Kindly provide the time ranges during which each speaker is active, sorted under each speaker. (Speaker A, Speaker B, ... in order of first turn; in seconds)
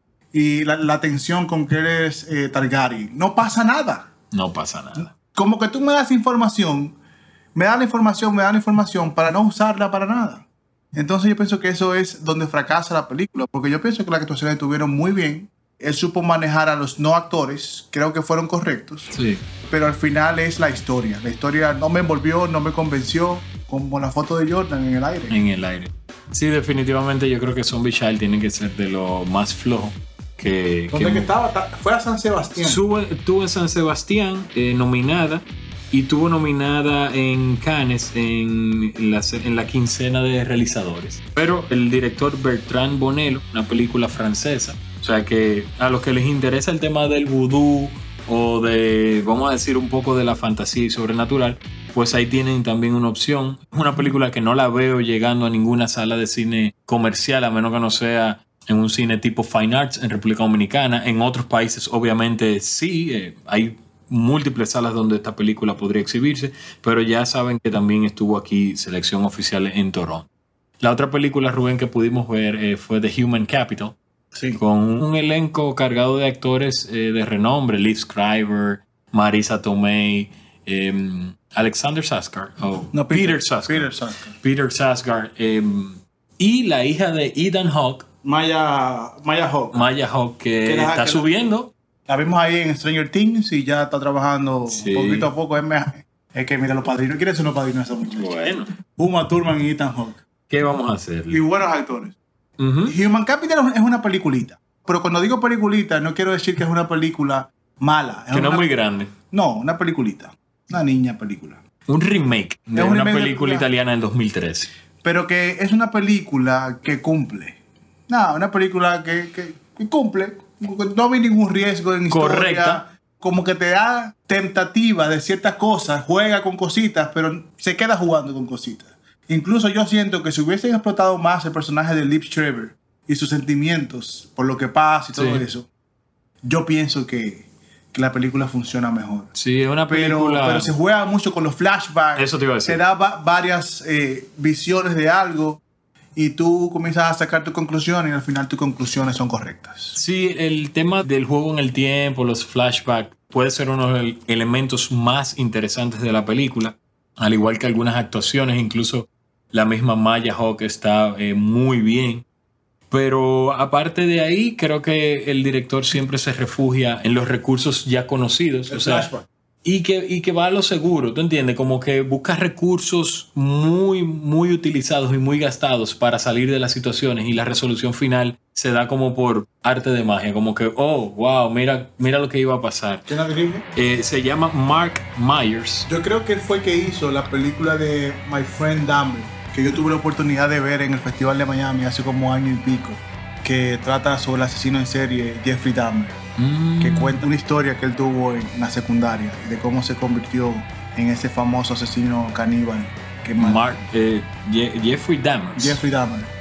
Speaker A: 0.3-4.1, 5.2-7.0, 7.5-19.1, 19.7-25.4, 30.9-32.8, 74.3-74.6, 82.9-84.3, 88.2-89.8, 90.7-91.5, 92.1-100.2, 101.3-102.2, 102.9-108.7, 109.3-111.6, 112.8-113.7, 115.0-117.6, 118.1-135.7, 136.4-139.3, 139.9-145.6, 146.2-150.0, 168.7-169.3, 183.1-183.7, 185.9-196.2, 196.8-203.6, 205.6-206.3
Speaker B: 4.3-5.1, 19.1-19.4, 25.3-31.3, 32.6-70.3, 70.8-74.0, 74.5-88.1, 89.7-91.7, 94.7-95.3, 98.2-98.7, 100.5-101.4, 102.6-103.0, 108.3-109.1, 111.9-114.7, 122.1-122.8, 135.1-135.4, 139.3-140.7, 142.2-142.8, 150.0-162.2, 162.9-169.1, 169.6-183.1, 183.8-185.9, 196.4-197.2, 203.4-205.8